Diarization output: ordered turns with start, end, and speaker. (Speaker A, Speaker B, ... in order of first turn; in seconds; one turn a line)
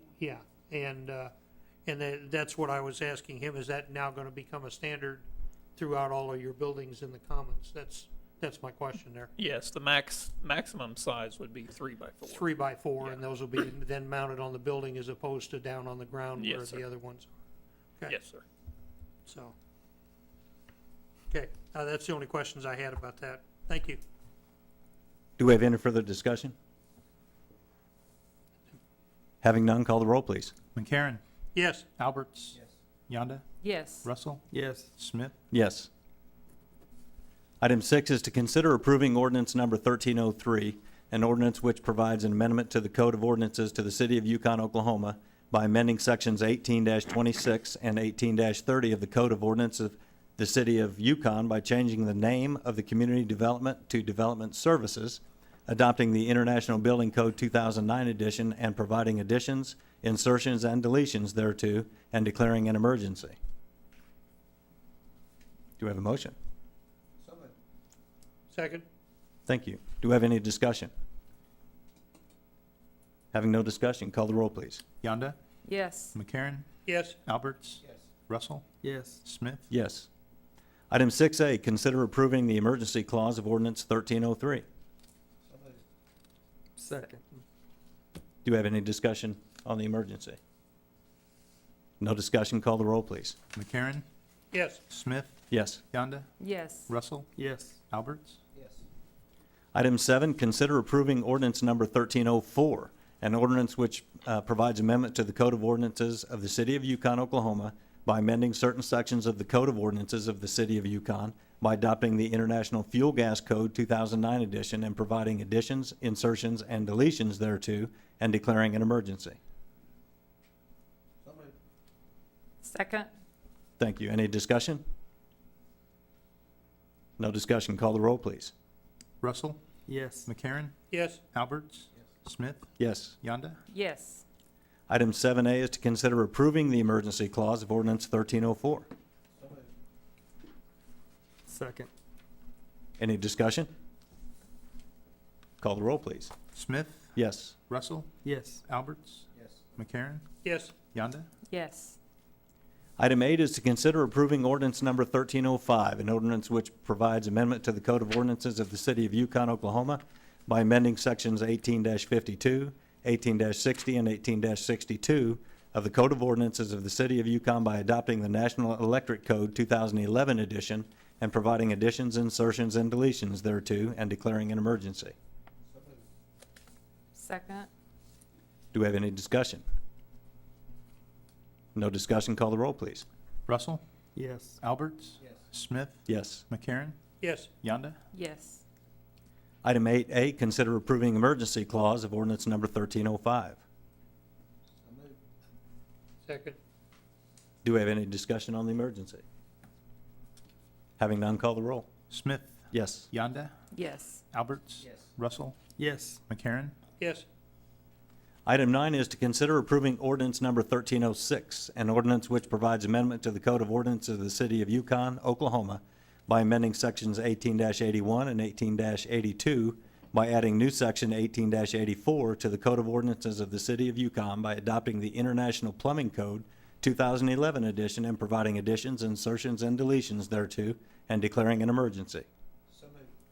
Speaker A: 0.2-1.3
Speaker A: 1.9-5.2
Speaker A: 5.8-9.3
Speaker B: 9.4-13.2
Speaker A: 12.2-17.3
Speaker B: 16.4-16.8
Speaker B: 18.1-18.4
Speaker A: 19.2-19.5
Speaker A: 21.3-24.0
Speaker C: 25.4-26.5
Speaker C: 29.4-30.5
Speaker D: 30.7-31.2
Speaker A: 31.5-31.8
Speaker D: 32.0-33.4
Speaker E: 33.6-34.1
Speaker D: 34.0-35.3
Speaker F: 34.5-34.8
Speaker C: 35.5-35.9
Speaker C: 37.6-63.4
Speaker C: 65.8-66.3
Speaker F: 67.2-67.5
Speaker A: 68.5-68.8
Speaker C: 69.5-70.9
Speaker C: 73.3-74.8
Speaker D: 75.0-75.4
Speaker E: 75.6-76.1
Speaker D: 76.1-76.7
Speaker A: 76.9-77.2
Speaker D: 77.2-79.7
Speaker F: 78.8-79.2
Speaker C: 79.7-80.1
Speaker C: 80.9-84.6
Speaker F: 86.8-87.1
Speaker C: 88.4-90.4
Speaker C: 92.0-93.4
Speaker D: 93.5-94.0
Speaker A: 94.5-94.8
Speaker D: 94.9-96.3
Speaker C: 95.5-95.8
Speaker E: 96.4-96.9
Speaker D: 96.9-98.4
Speaker C: 99.7-119.4
Speaker F: 121.2-121.5
Speaker E: 122.6-123.1
Speaker C: 123.8-124.8
Speaker C: 127.2-128.5
Speaker D: 129.2-129.6
Speaker F: 129.9-130.2
Speaker D: 130.2-130.7
Speaker A: 130.9-131.2
Speaker D: 131.3-133.6
Speaker C: 132.8-133.2
Speaker E: 133.7-134.2
Speaker C: 134.9-138.9
Speaker F: 141.5-141.9
Speaker C: 143.0-143.7
Speaker C: 145.6-146.3
Speaker D: 146.5-147.1
Speaker C: 147.2-147.6
Speaker D: 147.7-150.2
Speaker F: 148.2-148.6
Speaker A: 150.4-150.7
Speaker D: 150.9-151.3
Speaker E: 151.5-152.0
Speaker C: 153.0-175.1
Speaker E: 177.2-177.7
Speaker C: 178.7-179.6
Speaker C: 181.7-183.0
Speaker D: 183.5-183.8
Speaker F: 184.1-184.6
Speaker D: 184.6-187.0
Speaker C: 186.1-186.4
Speaker A: 187.2-187.5
Speaker D: 187.6-188.0
Speaker E: 188.1-188.6
Speaker C: 189.6-193.6
Speaker F: 194.9-195.1
Speaker A: 196.2-196.6
Speaker C: 197.6-199.2
Speaker C: 201.0-201.9
Speaker D: 202.1-203.6
Speaker C: 202.7-203.1
Speaker E: 203.7-204.2
Speaker D: 204.3-206.7
Speaker F: 205.8-206.2
Speaker A: 207.0-207.2
Speaker C: 208.4-232.2
Speaker F: 232.8-233.1